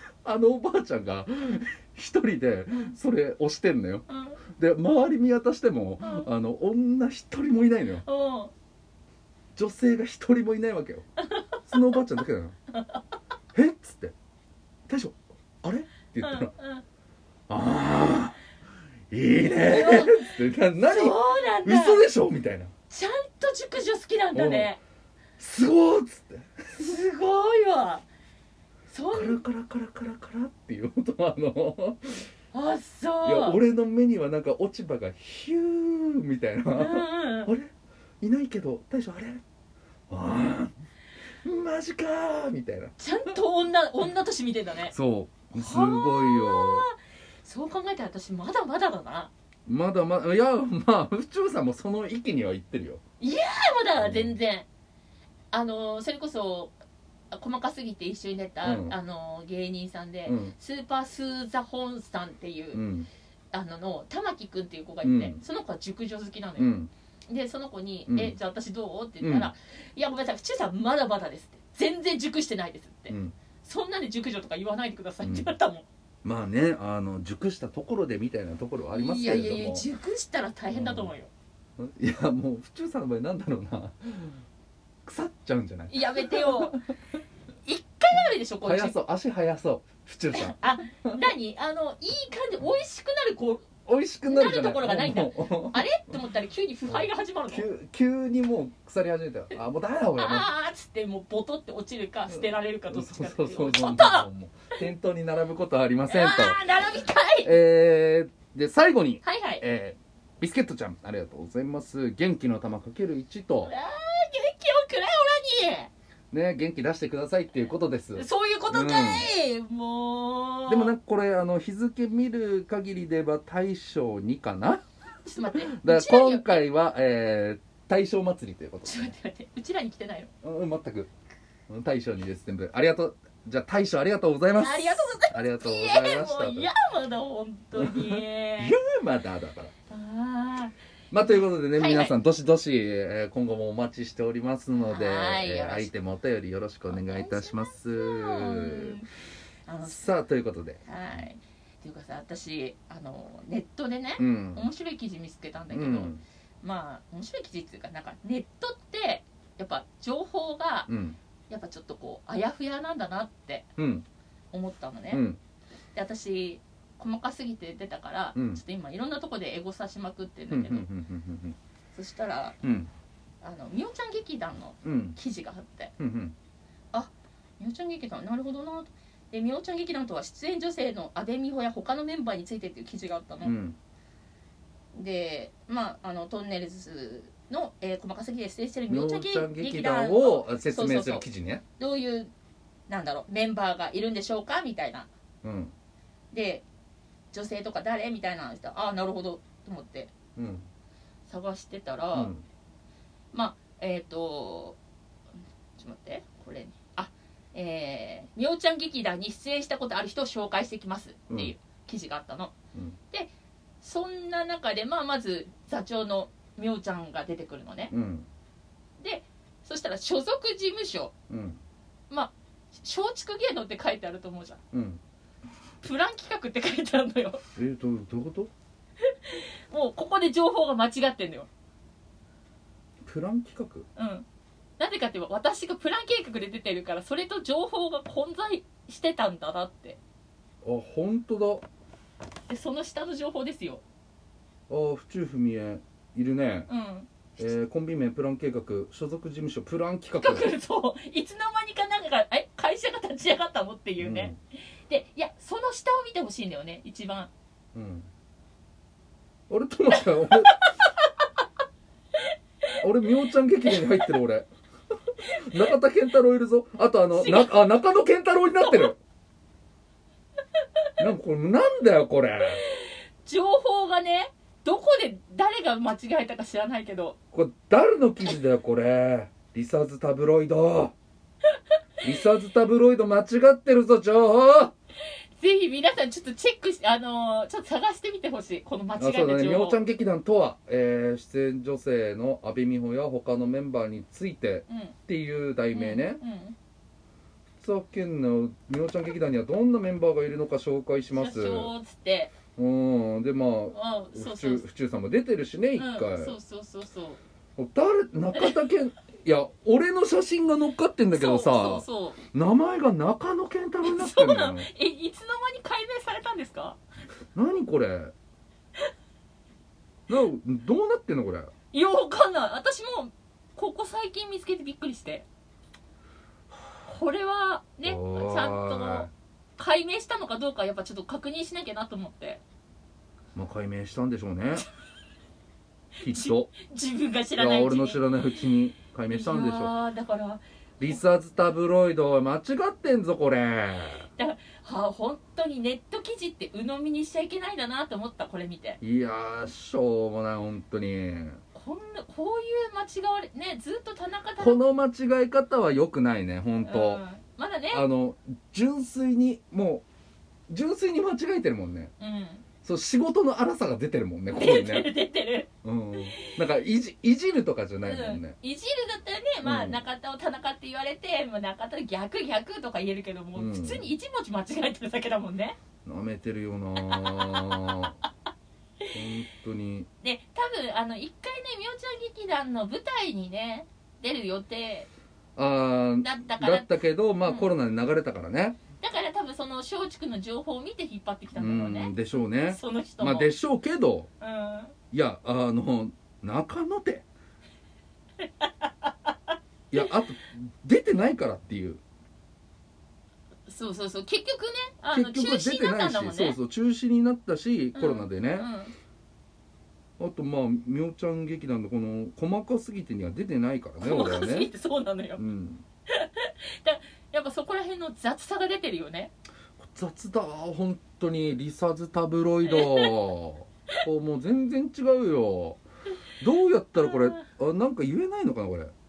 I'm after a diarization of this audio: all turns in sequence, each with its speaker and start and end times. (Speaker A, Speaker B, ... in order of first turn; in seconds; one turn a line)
Speaker A: 0.2-8.0
Speaker B: 4.1-4.4
Speaker B: 6.0-6.3
Speaker B: 8.0-8.5
Speaker A: 9.6-11.0
Speaker B: 11.2-12.0
Speaker A: 11.7-12.5
Speaker B: 12.7-13.0
Speaker A: 13.5-14.1
Speaker A: 14.9-16.5
Speaker B: 16.2-16.8
Speaker A: 17.5-18.4
Speaker A: 19.1-22.7
Speaker B: 19.5-22.0
Speaker B: 22.9-24.8
Speaker A: 24.3-24.7
Speaker A: 25.4-26.9
Speaker B: 26.8-28.0
Speaker B: 28.9-29.4
Speaker A: 29.1-32.2
Speaker B: 32.5-33.6
Speaker A: 33.2-39.4
Speaker B: 36.7-37.5
Speaker A: 40.1-40.7
Speaker A: 41.4-43.3
Speaker B: 43.0-44.9
Speaker A: 44.9-46.9
Speaker B: 45.5-49.3
Speaker A: 49.7-53.0
Speaker B: 53.2-54.7
Speaker A: 54.0-54.3
Speaker B: 55.5-56.8
Speaker B: 57.3-62.8
Speaker A: 58.6-59.0
Speaker A: 60.2-60.5
Speaker A: 62.7-63.1
Speaker B: 63.5-66.7
Speaker A: 65.0-65.4
Speaker A: 66.6-66.9
Speaker B: 67.3-75.8
Speaker A: 68.1-68.3
Speaker A: 69.2-69.5
Speaker A: 73.1-73.4
Speaker A: 75.2-75.6
Speaker A: 76.2-79.9
Speaker B: 78.9-81.3
Speaker A: 80.7-81.1
Speaker A: 81.8-84.4
Speaker A: 85.1-86.8
Speaker B: 85.9-86.8
Speaker B: 87.6-89.0
Speaker A: 88.6-91.2
Speaker B: 90.3-93.7
Speaker A: 93.8-96.1
Speaker B: 94.2-97.7
Speaker A: 96.9-100.5
Speaker B: 100.2-104.3
Speaker A: 102.3-106.6
Speaker B: 106.1-107.6
Speaker A: 107.4-113.7
Speaker B: 109.2-109.6
Speaker B: 113.6-115.9
Speaker A: 116.3-119.3
Speaker B: 118.2-121.0
Speaker A: 120.7-124.8
Speaker B: 125.2-126.6
Speaker A: 125.5-129.1
Speaker B: 128.8-130.3
Speaker A: 130.4-131.1
Speaker A: 131.7-136.7
Speaker B: 134.6-138.8
Speaker A: 137.8-139.7
Speaker B: 139.9-140.7
Speaker A: 141.1-149.0
Speaker B: 141.7-142.1
Speaker B: 144.8-145.9
Speaker B: 146.9-149.1
Speaker B: 149.7-150.1
Speaker A: 149.8-150.8
Speaker B: 150.9-160.9
Speaker A: 154.2-154.7
Speaker A: 155.7-156.2
Speaker A: 160.9-161.2
Speaker B: 161.5-163.7
Speaker A: 163.8-164.1
Speaker B: 164.5-165.2
Speaker A: 165.1-165.4
Speaker B: 165.9-170.9
Speaker A: 168.3-168.6
Speaker A: 170.5-171.6
Speaker B: 171.9-172.6
Speaker A: 172.6-172.9
Speaker B: 173.4-175.9
Speaker A: 174.8-175.2
Speaker A: 176.0-176.3
Speaker B: 176.9-183.6
Speaker A: 183.4-183.8
Speaker B: 184.9-191.2
Speaker A: 188.9-191.6
Speaker B: 191.8-192.3
Speaker B: 192.9-195.1
Speaker A: 195.4-195.7
Speaker B: 196.3-196.6
Speaker B: 197.3-200.1
Speaker A: 200.4-200.7
Speaker B: 201.3-202.3
Speaker A: 202.1-202.4
Speaker B: 203.3-204.8
Speaker B: 205.8-212.6
Speaker B: 213.8-217.9
Speaker A: 217.9-218.3
Speaker B: 219.0-221.1
Speaker A: 221.3-221.6
Speaker B: 222.1-224.6
Speaker A: 224.7-225.0
Speaker B: 225.8-227.4
Speaker A: 227.6-228.5
Speaker B: 229.0-231.5
Speaker A: 233.1-233.9
Speaker B: 233.9-234.2
Speaker B: 234.8-240.0
Speaker A: 240.6-241.6
Speaker B: 242.5-243.8
Speaker A: 244.7-246.7
Speaker B: 246.7-247.5
Speaker A: 247.4-250.5
Speaker B: 250.1-257.3
Speaker A: 254.0-254.4
Speaker A: 257.7-258.1
Speaker A: 259.5-260.6
Speaker A: 262.8-264.5
Speaker B: 263.6-264.1
Speaker A: 265.2-269.0
Speaker B: 267.1-267.6
Speaker B: 268.6-268.9
Speaker B: 270.6-270.9
Speaker A: 271.0-272.6
Speaker B: 272.6-277.2
Speaker A: 277.3-280.9
Speaker A: 282.0-284.7
Speaker B: 285.4-289.8
Speaker A: 289.0-296.2
Speaker B: 294.7-294.9
Speaker B: 295.7-296.6
Speaker A: 297.6-301.7
Speaker B: 301.1-302.4
Speaker A: 302.6-306.4
Speaker B: 303.7-304.6
Speaker B: 305.8-307.2
Speaker A: 307.6-314.7
Speaker B: 308.3-308.6
Speaker B: 311.1-312.2
Speaker B: 313.8-316.8
Speaker A: 317.3-318.1
Speaker A: 320.1-321.5
Speaker B: 321.7-325.2
Speaker B: 326.9-332.4
Speaker A: 327.8-329.1
Speaker A: 333.3-334.6
Speaker A: 336.0-336.6
Speaker B: 336.0-338.4
Speaker A: 337.4-339.7
Speaker B: 339.1-341.0
Speaker A: 340.8-344.1
Speaker B: 344.2-348.8
Speaker A: 348.8-351.4
Speaker B: 351.5-354.6
Speaker A: 354.4-357.0
Speaker B: 356.6-357.9
Speaker A: 357.7-359.8
Speaker A: 360.5-361.9
Speaker B: 362.0-362.5
Speaker A: 362.6-364.9
Speaker B: 364.3-366.4
Speaker A: 365.6-368.3
Speaker B: 367.8-375.6
Speaker A: 369.4-369.8
Speaker A: 373.4-373.9
Speaker A: 375.8-377.9
Speaker B: 376.8-377.9
Speaker A: 378.9-379.9
Speaker B: 380.0-384.9
Speaker A: 385.4-388.6
Speaker B: 386.0-387.5
Speaker B: 388.8-391.9
Speaker A: 391.4-394.1
Speaker B: 392.4-393.3
Speaker B: 394.2-394.8
Speaker A: 394.9-397.1
Speaker B: 398.2-399.1
Speaker A: 399.7-401.8
Speaker B: 403.5-406.4
Speaker A: 404.9-408.5
Speaker B: 407.7-408.7
Speaker A: 410.0-414.5
Speaker B: 413.8-415.2
Speaker A: 415.2-415.6
Speaker B: 415.9-419.1
Speaker A: 419.6-425.6
Speaker B: 422.4-423.1
Speaker A: 426.2-428.7
Speaker B: 426.8-427.2